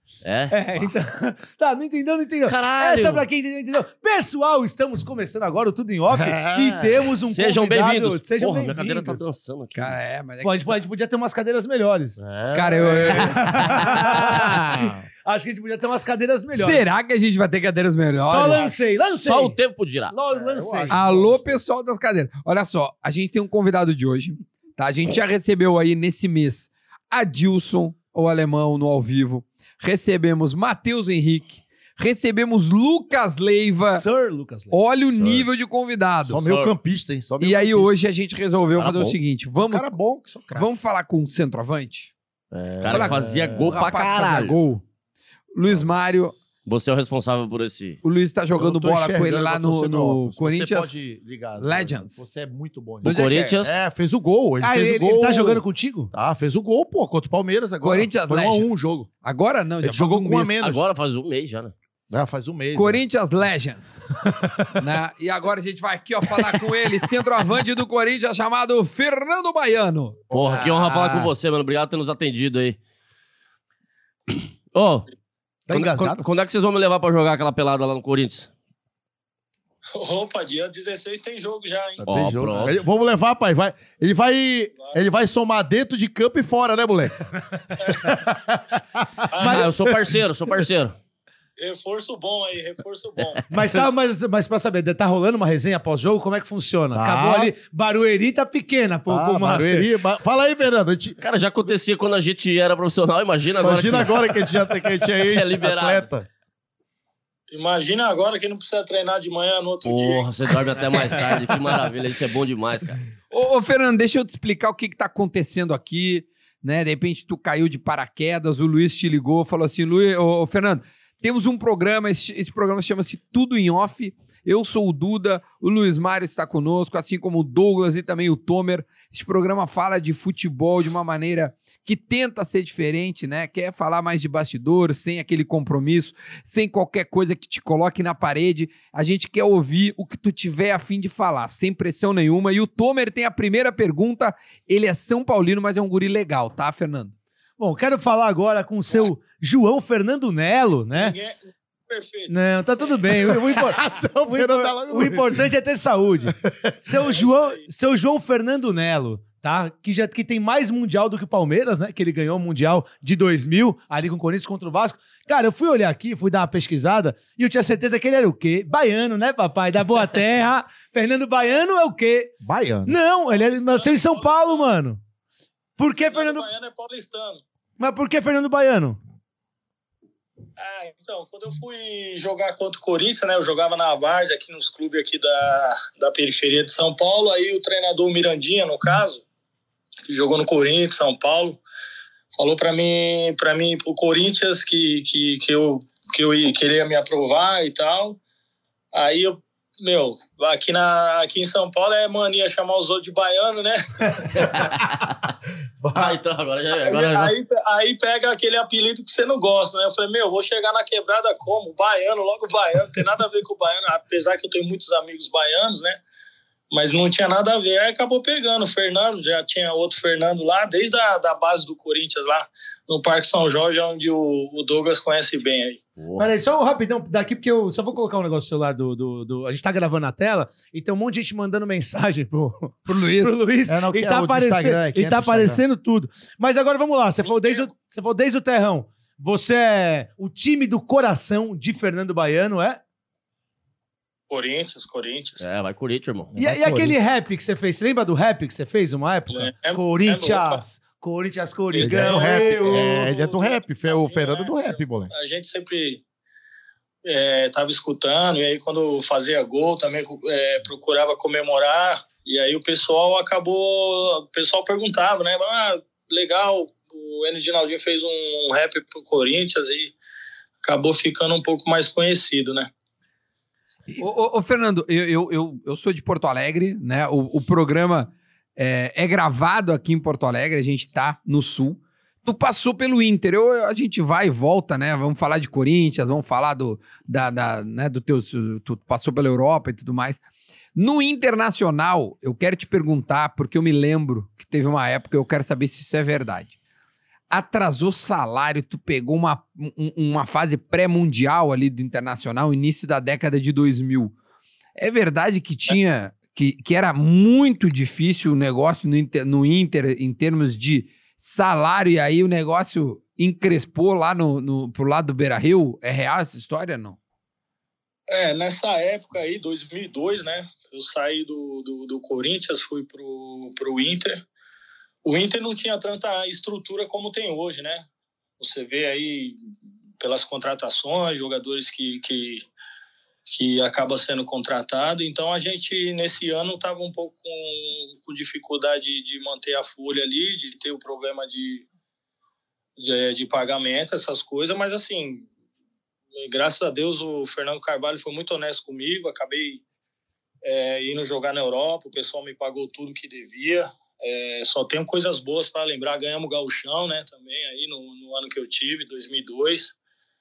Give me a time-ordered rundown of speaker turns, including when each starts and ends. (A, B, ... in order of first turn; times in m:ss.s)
0:00.2-0:00.9 A
0:00.5-0:09.2 B
0:02.5-0:03.2 A
0:06.1-0:07.0 C
0:07.2-0:10.0 A
0:09.7-0:10.8 D
0:10.4-0:12.2 B
0:12.2-0:15.0 C
0:12.5-0:14.9 D
0:12.8-0:14.6 B
0:13.8-0:14.3 A
0:15.2-0:16.9 B
0:16.5-0:18.8 D
0:18.2-0:19.6 B
0:18.5-0:20.1 A
0:20.1-0:21.0 B
0:20.3-0:21.6 C
0:20.9-0:34.1 D
0:33.8-0:34.8 B
0:34.7-0:36.5 D
0:35.1-0:35.5 C
0:36.2-0:38.0 C
0:36.4-0:36.7 A
0:37.4-0:40.0 D
0:38.8-0:40.7 C
0:40.5-0:42.1 D
0:42.5-0:43.8 C
0:42.8-0:44.6 A
0:42.9-0:44.8 D
0:45.5-0:46.4 D
0:46.6-0:48.0 A
0:48.0-0:51.0 D
0:48.6-0:59.1 C
0:51.6-0:52.2 D
0:53.0-0:53.6 D
0:53.0-0:53.8 A
0:54.6-0:56.1 B
0:57.8-1:00.6 D
0:59.8-1:00.8 C
1:00.6-1:01.7 A
1:02.1-1:03.0 C
1:02.8-1:04.0 D
1:04.8-1:11.3 D
1:06.3-1:07.1 A
1:10.3-1:10.6 C
1:10.3-1:12.8 A
1:14.7-1:15.1 A
1:15.7-1:16.2 C
1:15.7-1:18.5 A
1:20.0-1:22.0 E
1:22.0-1:27.2 C
1:22.0-1:22.8 A
1:27.8-1:30.2 C
1:27.8-1:28.1 E
1:29.3-1:29.7 E
1:29.4-1:29.7 B
1:29.4-1:30.9 A
1:31.6-1:33.4 E
1:33.5-1:39.9 B
1:36.9-1:37.5 C
1:39.1-1:41.2 C
1:41.2-1:46.1 A
1:43.6-1:46.3 C
1:47.5-1:50.3 E
1:49.8-1:53.0 A
1:53.3-2:27.1 D
2:27.6-2:31.2 B
2:30.9-2:33.0 E
2:32.3-2:55.0 B
2:33.1-2:35.5 C
2:36.3-2:36.7 C
2:37.0-2:37.7 E
2:52.4-2:53.0 C
2:53.2-2:54.7 E
2:55.8-2:56.5 B
2:56.0-2:57.4 E
2:57.8-2:59.0 B
3:00.6-3:09.2 E
3:10.1-3:11.6 E
3:12.4-3:18.2 E
3:18.9-3:24.6 E
3:24.3-3:25.3 A
3:25.8-3:26.1 C
3:25.9-3:27.3 A
3:26.7-3:36.0 E
3:36.7-3:45.8 E
3:46.0-3:46.3 A
3:46.2-4:02.8 B
3:52.9-3:53.4 D
3:53.7-3:55.6 C
3:57.2-3:57.7 E
4:04.3-4:05.4 E
4:05.4-4:06.4 A
4:06.4-4:07.0 C
4:06.4-4:13.1 B
4:09.3-4:10.6 E
4:11.7-4:16.0 E
4:11.8-4:15.1 C
4:17.1-4:30.0 E
4:30.6-4:32.7 E
4:33.9-4:50.2 D
4:50.8-4:56.6 D
4:57.3-5:04.1 D
5:04.8-5:17.0 D
5:18.1-5:24.2 E
5:25.0-5:27.9 E
5:28.4-5:32.5 E
5:33.3-5:41.7 E
5:42.8-5:45.3 E
5:46.2-5:49.6 E
5:50.4-5:59.7 E